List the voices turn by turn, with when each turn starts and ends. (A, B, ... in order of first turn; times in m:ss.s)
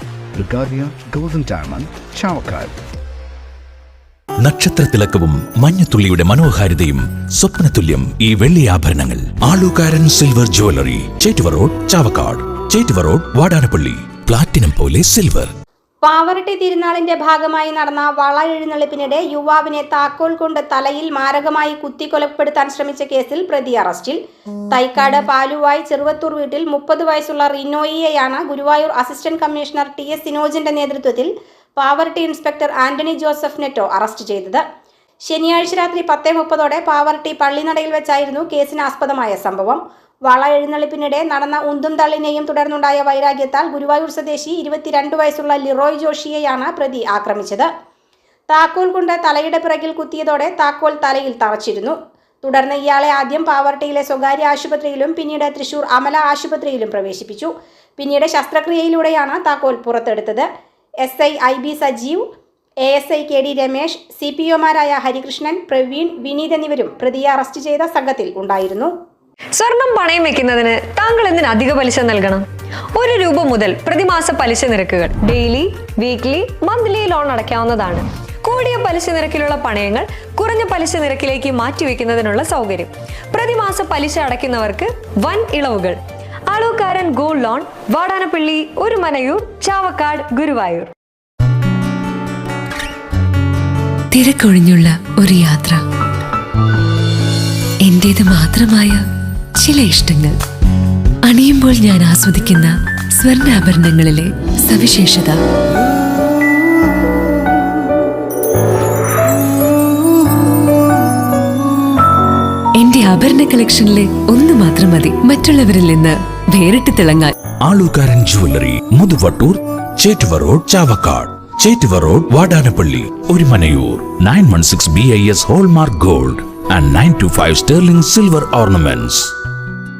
0:00.3-0:02.7 A
0:04.4-0:15.5 B
0:16.0-0:24.2 C
0:24.7-0:34.6 C
0:35.3-0:47.7 C
0:48.5-1:00.5 C
1:01.0-1:02.2 C
1:02.8-1:08.9 C
1:09.6-1:26.0 D
1:26.5-1:30.9 D
1:34.1-1:35.8 E
1:37.8-1:39.0 E
1:39.6-1:40.4 E
1:41.2-1:45.4 E
1:52.8-1:57.3 E
1:57.6-2:09.3 B